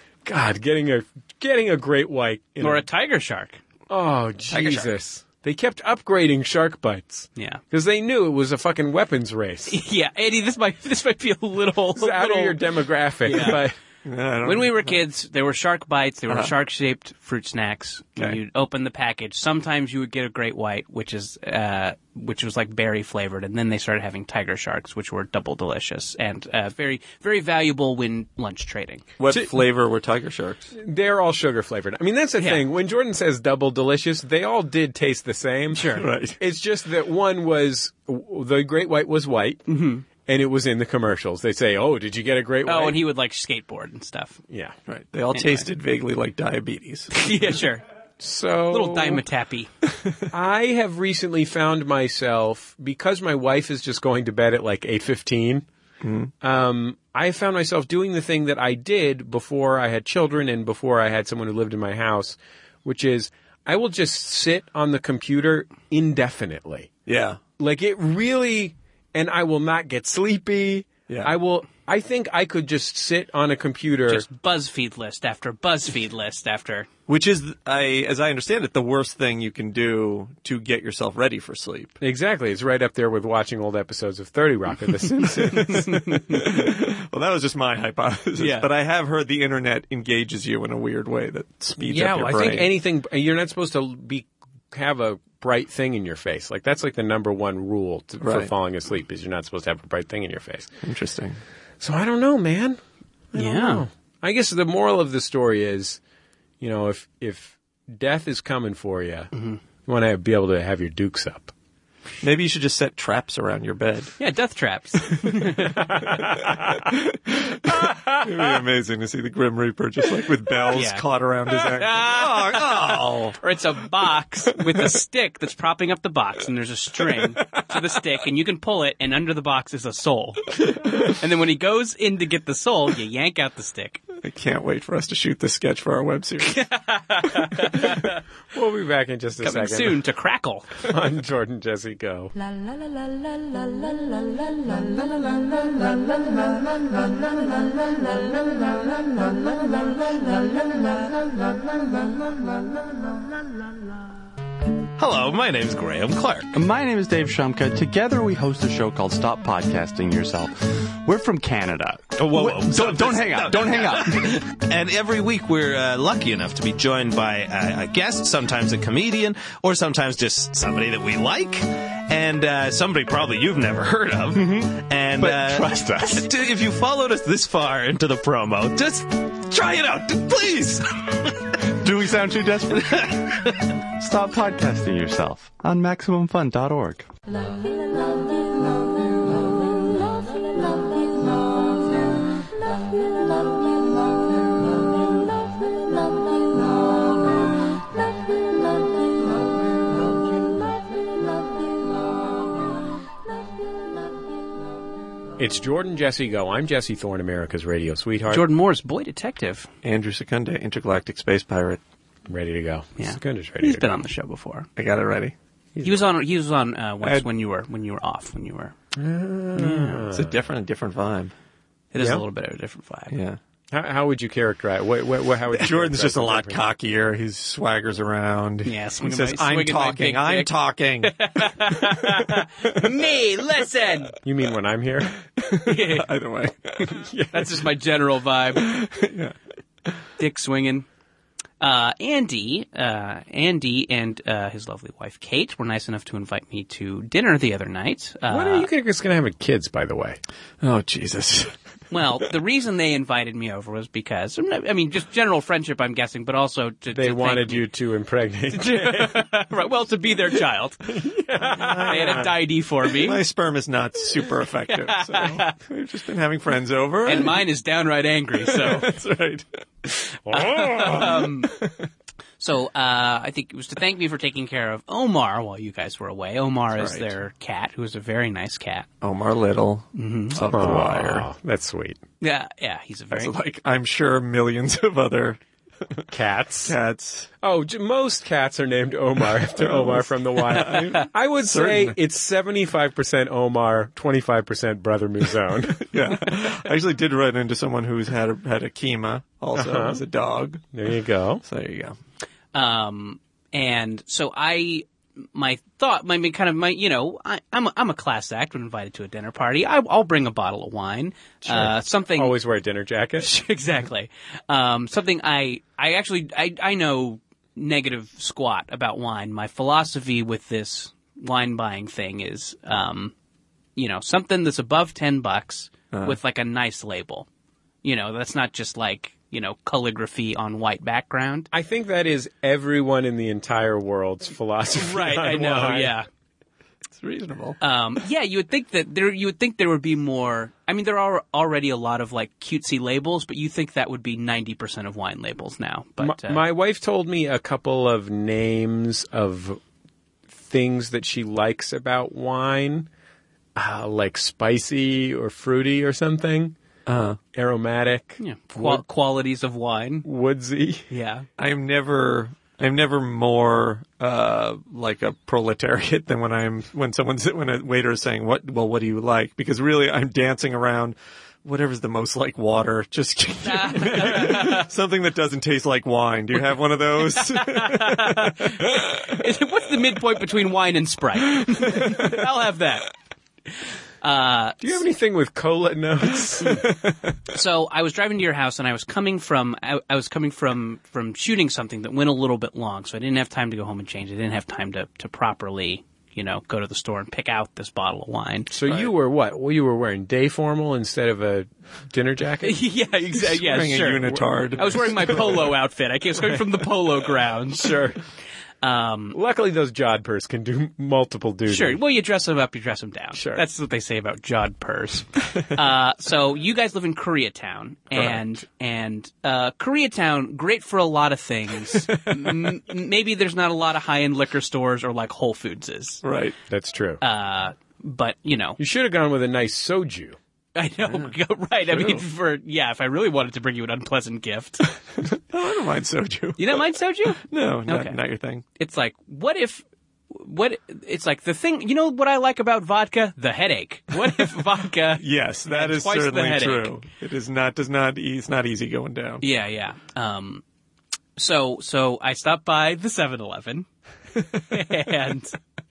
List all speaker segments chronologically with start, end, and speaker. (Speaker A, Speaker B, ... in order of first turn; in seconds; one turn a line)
Speaker A: 0.2-2.9
Speaker B: 2.6-3.6
Speaker A: 3.9-9.8
Speaker C: 4.5-4.9
Speaker B: 7.3-7.6
Speaker B: 9.7-12.6
Speaker A: 11.9-13.8
Speaker B: 13.2-13.6
Speaker C: 13.3-15.0
Speaker B: 14.4-29.0
Speaker C: 29.2-30.7
Speaker A: 30.7-39.6
Speaker B: 35.7-36.0
Speaker C: 36.0-36.4
Speaker B: 39.7-40.0
Speaker A: 40.2-43.0
Speaker B: 42.6-44.4
Speaker A: 44.5-44.7
Speaker C: 44.9-47.2
Speaker B: 45.3-45.7
Speaker B: 47.1-47.8
Speaker A: 48.2-49.2
Speaker B: 48.7-49.7
Speaker A: 50.3-55.6
Speaker C: 56.0-56.3
Speaker A: 56.4-66.9
Speaker C: 67.1-67.4
Speaker A: 67.6-74.2
Speaker C: 71.1-71.3
Speaker B: 74.1-76.9
Speaker C: 77.1-81.9
Speaker A: 82.0-86.0
Speaker B: 85.5-86.5
Speaker C: 85.7-92.7
Speaker B: 88.4-88.7
Speaker A: 91.8-100.7
Speaker C: 98.2-98.5
Speaker C: 100.8-101.4
Speaker A: 101.8-102.8
Speaker A: 103.3-106.0
Speaker B: 103.3-103.8
Speaker A: 106.6-109.3
Speaker B: 109.3-109.6
Speaker A: 109.8-111.5
Speaker C: 112.2-114.1
Speaker B: 114.2-116.0
Speaker A: 116.0-116.5
Speaker C: 116.4-123.4
Speaker A: 117.7-118.4
Speaker B: 120.7-134.0
Speaker C: 134.2-136.7
Speaker B: 136.4-138.2
Speaker A: 138.5-140.0
Speaker B: 139.4-140.7
Speaker A: 140.8-142.3
Speaker D: 142.3-153.2
Speaker E: 155.0-156.6
Speaker F: 156.5-164.4
Speaker E: 162.2-180.8
Speaker F: 181.8-183.3
Speaker E: 182.7-183.6
Speaker F: 184.0-187.1
Speaker D: 187.3-197.1
Speaker D: 198.6-198.9
Speaker A: 205.4-208.5
Speaker B: 208.3-209.7
Speaker C: 209.8-211.8
Speaker A: 212.3-214.0
Speaker B: 213.0-214.7
Speaker C: 214.8-215.3
Speaker A: 215.7-216.0
Speaker B: 215.8-218.7
Speaker A: 218.9-220.3
Speaker B: 219.6-220.0
Speaker C: 220.1-221.3
Speaker B: 221.9-223.1
Speaker A: 222.0-222.2
Speaker C: 223.1-223.4
Speaker A: 223.7-226.6
Speaker C: 225.5-232.2
Speaker B: 228.6-230.5
Speaker B: 231.0-234.2
Speaker A: 234.2-235.1
Speaker C: 235.4-237.0
Speaker B: 235.6-236.1
Speaker A: 236.9-237.4
Speaker B: 237.3-238.7
Speaker C: 238.6-239.3
Speaker B: 240.2-240.8
Speaker B: 241.6-248.7
Speaker A: 248.3-250.2
Speaker C: 250.6-251.5
Speaker B: 251.9-257.6
Speaker A: 256.9-259.2
Speaker B: 258.5-260.8
Speaker A: 260.9-262.3
Speaker C: 261.5-267.4
Speaker B: 261.9-263.2
Speaker B: 264.7-265.5
Speaker B: 267.1-268.9
Speaker C: 268.4-269.9
Speaker A: 270.3-271.0
Speaker B: 270.3-271.5
Speaker C: 270.6-271.9
Speaker B: 272.4-278.9
Speaker C: 276.7-277.1
Speaker C: 279.0-281.3
Speaker B: 279.9-280.4
Speaker A: 280.5-282.0
Speaker B: 282.2-283.3
Speaker C: 283.1-286.1
Speaker A: 286.1-286.7
Speaker C: 286.6-287.3
Speaker A: 287.4-295.8
Speaker C: 289.6-291.9
Speaker B: 290.6-291.1
Speaker C: 295.8-300.7
Speaker A: 299.5-300.0
Speaker A: 300.7-301.4
Speaker C: 301.4-301.9
Speaker B: 302.5-312.3
Speaker A: 311.4-313.3
Speaker B: 313.2-323.1
Speaker B: 323.8-327.3
Speaker C: 325.9-326.2
Speaker B: 327.8-331.5
Speaker A: 331.5-335.9
Speaker B: 334.8-336.1
Speaker C: 336.9-337.6
Speaker B: 337.6-346.4
Speaker A: 346.0-349.6
Speaker A: 350.4-352.9
Speaker A: 353.6-356.6
Speaker C: 356.9-357.2
Speaker A: 357.3-358.9
Speaker B: 358.2-360.1
Speaker A: 360.0-360.9
Speaker B: 360.9-361.2
Speaker C: 361.4-378.7
Speaker B: 373.4-374.7
Speaker B: 377.0-382.9
Speaker C: 381.6-382.1
Speaker B: 384.0-384.7
Speaker A: 384.6-386.6
Speaker C: 386.6-387.1
Speaker B: 387.3-398.5
Speaker A: 398.5-402.6
Speaker B: 402.4-407.8
Speaker C: 403.2-405.5
Speaker A: 407.6-408.0
Speaker B: 408.6-409.2
Speaker A: 409.1-411.8
Speaker B: 411.5-426.0
Speaker A: 413.1-413.4
Speaker C: 417.9-418.2
Speaker C: 421.9-422.4
Speaker C: 426.0-426.3
Speaker A: 426.5-427.0
Speaker B: 427.0-428.6
Speaker A: 428.6-430.2
Speaker B: 430.6-434.7
Speaker C: 430.9-431.1
Speaker C: 431.7-432.0
Speaker C: 435.0-438.4
Speaker B: 436.4-438.0
Speaker B: 438.6-446.7
Speaker C: 445.0-449.2
Speaker B: 449.2-450.4
Speaker B: 451.2-453.7
Speaker B: 454.5-455.4